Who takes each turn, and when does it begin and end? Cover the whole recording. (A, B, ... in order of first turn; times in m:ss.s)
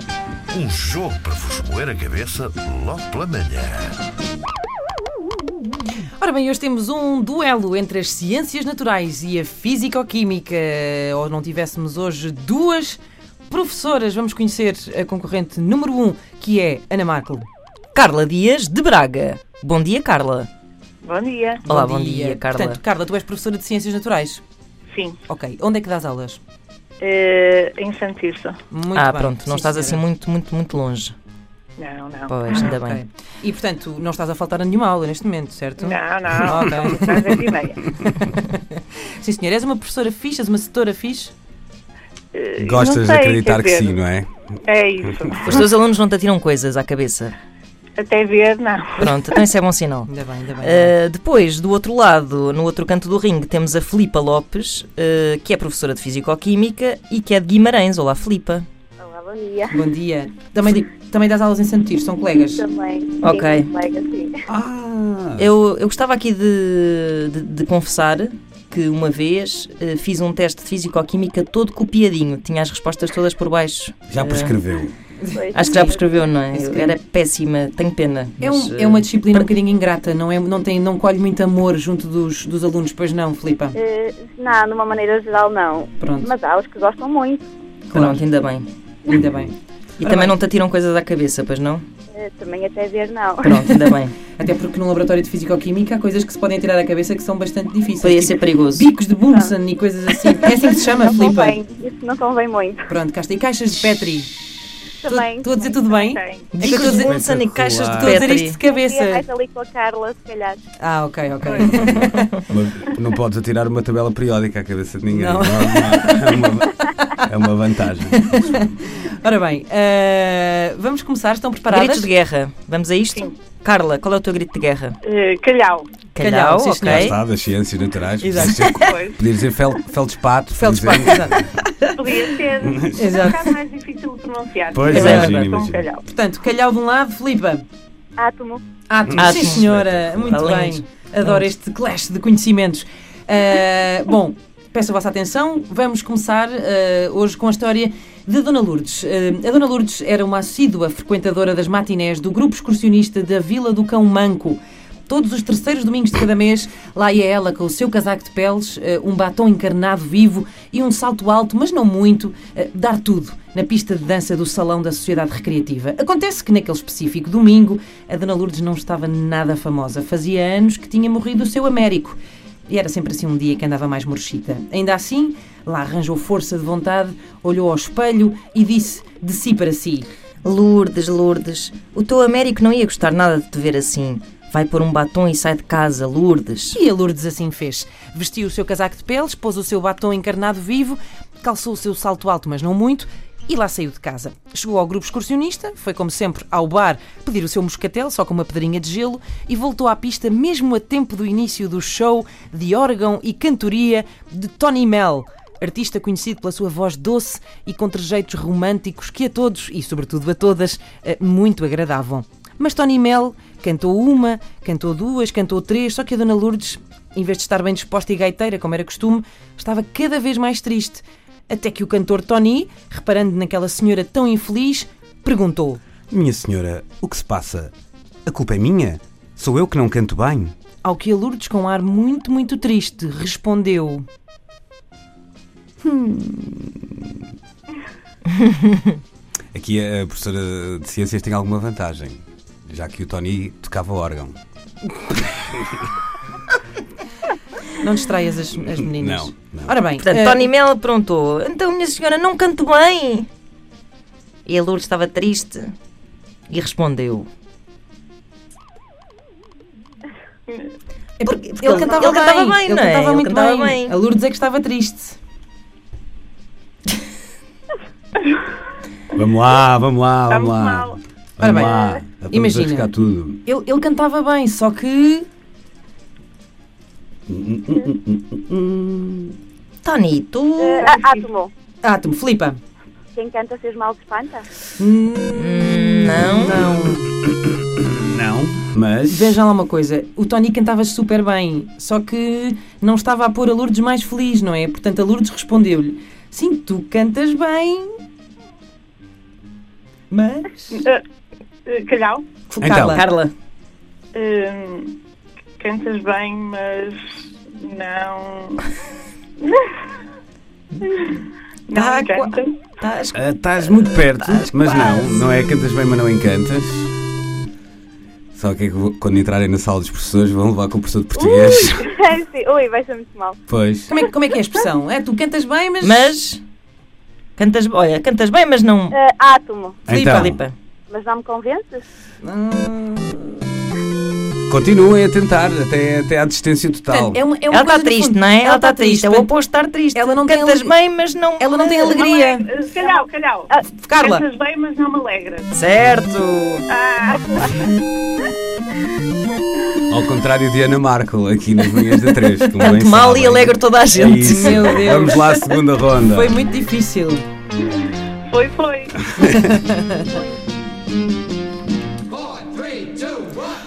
0:00.5-0:04.0 A
0:06.2-0:17.5 B
0:18.0-0:20.5 C
0:21.0-0:21.6 D
0:21.6-0:22.8 C
0:21.7-0:24.4 B
0:24.9-0:25.2 D
0:25.2-0:26.4 B
0:27.0-0:28.6 D
0:28.7-0:30.0 B
0:29.0-0:31.1 C
0:31.8-0:32.4 D
0:32.3-0:33.0 C
0:32.5-0:41.3 B
0:35.8-0:37.8 D
0:42.3-0:44.0 D
0:42.6-0:44.6 E
0:44.6-0:45.7 D
0:45.4-0:47.4 C
0:48.0-0:49.4 D
0:49.0-0:50.1 C
0:50.1-0:51.0 B
0:50.6-0:58.7 C
0:59.0-0:59.8 F
0:59.7-1:02.6 B
1:02.5-1:04.4 F
1:03.2-1:03.7 C
1:04.5-1:05.5 E
1:05.4-1:14.6 C
1:14.1-1:14.9 E
1:15.2-1:15.9 B
1:15.3-1:16.0 F
1:15.5-1:19.5 C
1:16.5-1:17.0 B
1:18.4-1:23.8 B
1:23.7-1:27.5 F
1:26.0-1:26.3 B
1:27.9-1:28.2 B
1:27.9-1:28.7 C
1:29.1-1:30.4 B
1:29.1-1:29.5 E
1:30.0-1:31.8 C
1:32.1-1:33.6 F
1:33.4-1:34.1 C
1:33.5-1:41.6 B
1:38.0-1:38.9 C
1:40.2-1:42.9 F
1:42.9-1:44.3 B
1:45.0-1:45.8 F
1:45.1-1:47.2 B
1:45.9-1:46.5 D
1:46.5-1:48.6 C
1:46.6-1:48.3 E
1:48.0-1:49.2 B
1:48.7-1:50.6 F
1:50.8-1:52.3 B
1:51.5-1:52.4 C
1:51.8-1:58.7 E
1:55.1-1:57.2 B
1:58.1-2:02.1 B
2:01.7-2:05.0 C
2:05.0-2:05.9 D
2:06.2-2:07.2 C
2:06.2-2:07.1 B
2:06.8-2:11.4 E
2:08.2-2:08.6 B
2:08.3-2:08.7 C
2:08.4-2:09.2 D
2:10.5-2:11.9 B
2:12.0-2:16.0 D
2:12.7-2:13.0 E
2:13.0-2:13.5 B
2:14.7-2:15.8 E
2:14.9-2:15.5 C
2:14.9-2:15.3 B
2:16.0-2:17.6 B
2:18.2-2:18.6 F
2:18.9-3:00.1 B
2:19.1-2:20.4 E
2:19.2-2:19.7 C
2:20.2-2:21.4 C
3:00.4-3:06.8 C
3:06.7-3:45.8 B
3:46.1-3:47.7 E
3:48.3-3:50.6 E
3:50.8-3:54.1 B
3:55.8-3:56.4 B
3:59.5-4:04.4 E
4:05.1-4:05.9 E
4:07.8-4:10.5 B
4:08.8-4:09.8 E
4:10.0-4:13.3 C
4:14.5-4:15.7 C
4:16.5-4:17.3 C
4:20.5-4:20.7 D
4:21.2-4:25.2 B
4:21.3-4:24.0 C
4:29.2-4:33.4 E
4:30.3-4:31.0 D
4:31.4-4:32.9 B
4:33.4-4:35.3 B
4:37.3-4:39.4 E
4:39.8-4:40.9 C
4:40.6-4:41.5 F
4:41.8-4:42.6 B
4:43.2-4:44.5 F
4:44.8-4:47.1 B
4:45.4-4:46.7 C
4:47.2-4:49.4 E
4:49.1-4:58.0 B
5:00.1-5:00.8 B
5:00.7-5:01.0 D
5:01.7-5:02.2 D
5:02.5-5:03.1 B
5:02.6-5:03.0 E
5:02.9-5:03.3 C
5:04.1-5:05.0 D
5:05.6-5:08.6 D
5:09.4-5:09.8 D
5:11.7-5:12.6 D
5:11.7-5:15.2 C
5:13.1-5:16.9 E
5:18.4-5:21.9 E
5:21.2-5:23.4 F
5:23.5-5:23.9 E
5:23.9-5:26.1 B
5:25.8-5:26.4 C
5:27.4-5:29.0 C
5:28.9-5:29.8 F
5:29.9-5:30.4 E
5:29.9-5:30.5 C
5:29.9-5:30.3 B
5:30.9-5:31.8 F
5:32.2-5:33.4 B
5:34.5-5:37.2 E
5:36.9-5:39.4 B
5:37.5-5:42.0 C
5:39.9-5:40.8 B
5:41.4-5:42.5 B
5:42.0-5:45.5 D
5:43.7-5:44.3 B
5:45.5-5:46.6 C
5:46.7-5:47.7 D
5:49.9-5:56.4 E
5:52.0-5:54.8 C
5:54.0-5:57.2 B
5:57.6-5:59.1 D
5:59.3-6:00.0 B